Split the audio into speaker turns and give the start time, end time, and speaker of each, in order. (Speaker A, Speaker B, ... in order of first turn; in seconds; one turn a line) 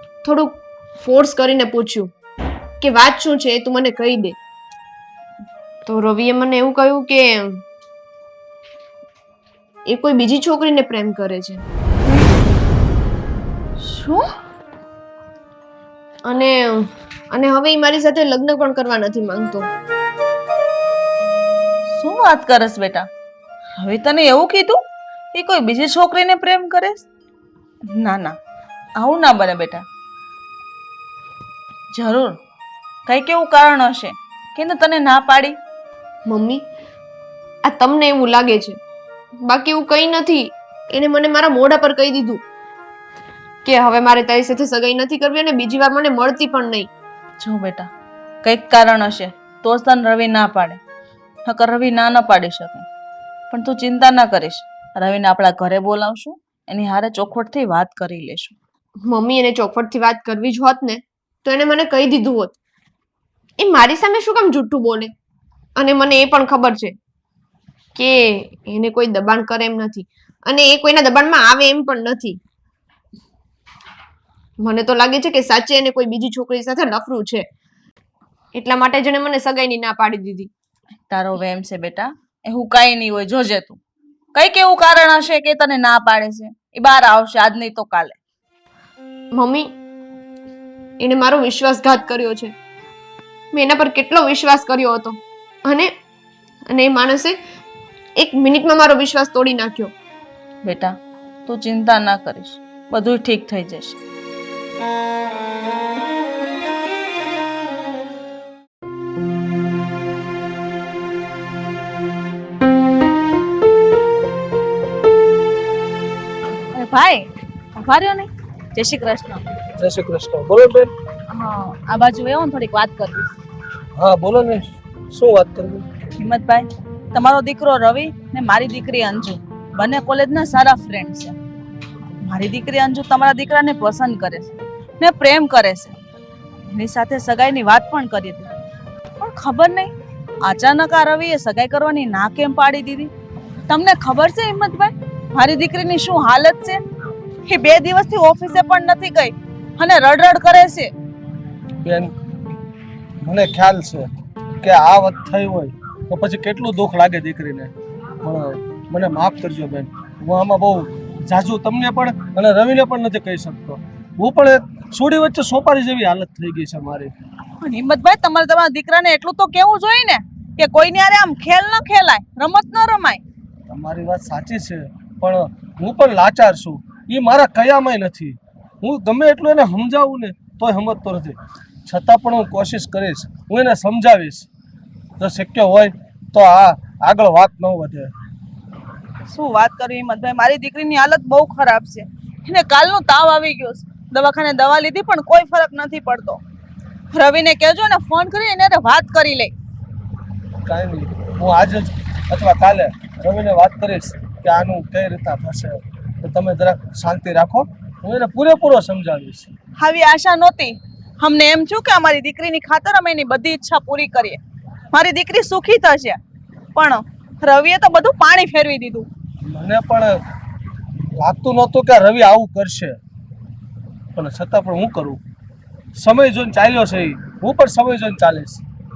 Speaker A: 0.2-2.1
Speaker A: 2.8-4.4
Speaker A: 5.8-7.6
Speaker A: 9.8-11.6
Speaker B: 13.8-14.3
Speaker A: 16.2-19.7
Speaker B: 21.9-23.1
Speaker B: 23.8-24.8
Speaker B: 25.3-27.1
Speaker B: 27.9-28.4
Speaker B: 28.9-29.8
Speaker B: 31.9-32.4
Speaker B: 33.1-35.6
Speaker A: 36.3-36.6
Speaker A: 37.6-38.8
Speaker A: 39.4-42.4
Speaker A: 43.6-46.9
Speaker B: 47.4-47.9
Speaker B: 48.4-50.8
Speaker B: 51.4-52.9
Speaker B: 53.5-58.5
Speaker A: 59.0-62.5
Speaker A: 63.6-65.1
Speaker A: 65.8-66.9
Speaker A: 67.9-72.4
Speaker A: 74.6-77.5
Speaker A: 78.5-80.5
Speaker B: 81.1-83.8
Speaker B: 84.3-88.2
Speaker A: 89.3-89.7
Speaker A: 91.0-92.5
Speaker A: 93.5-95.9
Speaker A: 96.7-97.4
Speaker A: 98.2-99.9
Speaker B: 100.6-100.9
Speaker B: 101.5-104.0
Speaker B: 116.7-119.4
Speaker C: 119.8-120.9
Speaker B: 121.3-123.3
Speaker C: 124.0-125.9
Speaker B: 126.2-131.3
Speaker B: 132.2-135.9
Speaker B: 136.7-138.5
Speaker B: 139.2-143.1
Speaker B: 143.7-146.8
Speaker B: 147.4-150.9
Speaker C: 151.8-152.1
Speaker C: 153.2-154.1
Speaker C: 154.6-157.7
Speaker C: 158.2-167.1
Speaker B: 167.6-173.2
Speaker C: 173.7-184.5
Speaker C: 185.2-188.1
Speaker B: 189.2-196.4
Speaker B: 197.1-199.5
Speaker C: 200.7-209.5
Speaker B: 209.8-214.4
Speaker B: 214.9-216.2
Speaker B: 216.7-219.1
Speaker C: 219.4-220.2
Speaker C: 221.1-223.0
Speaker C: 224.1-225.2
Speaker C: 225.9-228.6